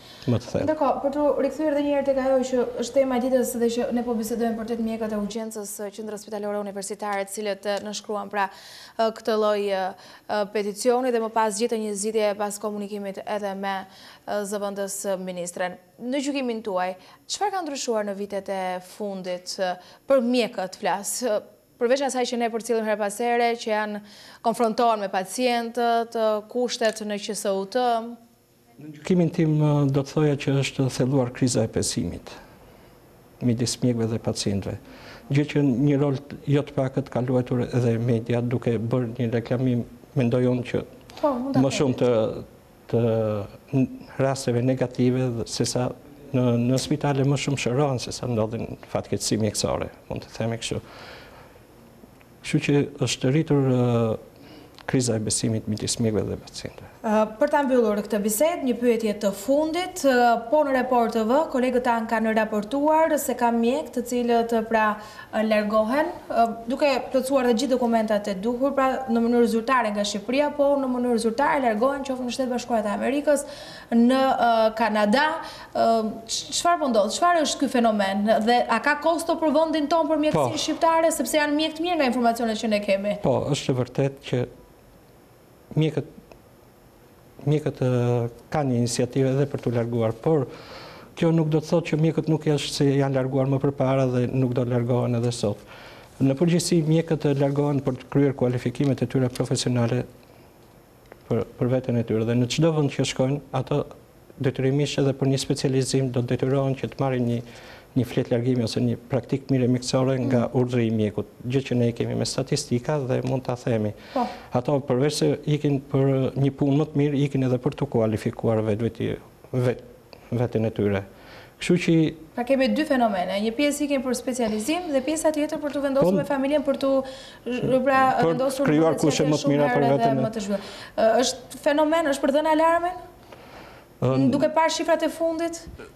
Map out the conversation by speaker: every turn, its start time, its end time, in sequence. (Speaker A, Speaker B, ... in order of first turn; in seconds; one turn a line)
Speaker A: 0.2-0.7
Speaker B: 0.6-28.2
Speaker A: 28.8-32.4
Speaker A: 33.4-40.9
Speaker B: 41.2-42.0
Speaker A: 41.5-50.8
Speaker A: 52.4-54.2
Speaker A: 54.9-56.9
Speaker B: 57.0-83.2
Speaker A: 80.3-80.6
Speaker A: 83.2-84.5
Speaker A: 85.7-86.1
Speaker A: 87.4-90.5
Speaker A: 91.2-95.6
Speaker A: 96.2-100.0
Speaker A: 101.3-103.9
Speaker A: 104.4-107.4
Speaker A: 107.9-121.1
Speaker A: 121.6-122.2
Speaker B: 122.4-133.0
Speaker A: 126.0-126.2
Speaker A: 128.0-130.3
Speaker A: 134.0-134.4
Speaker B: 134.1-135.7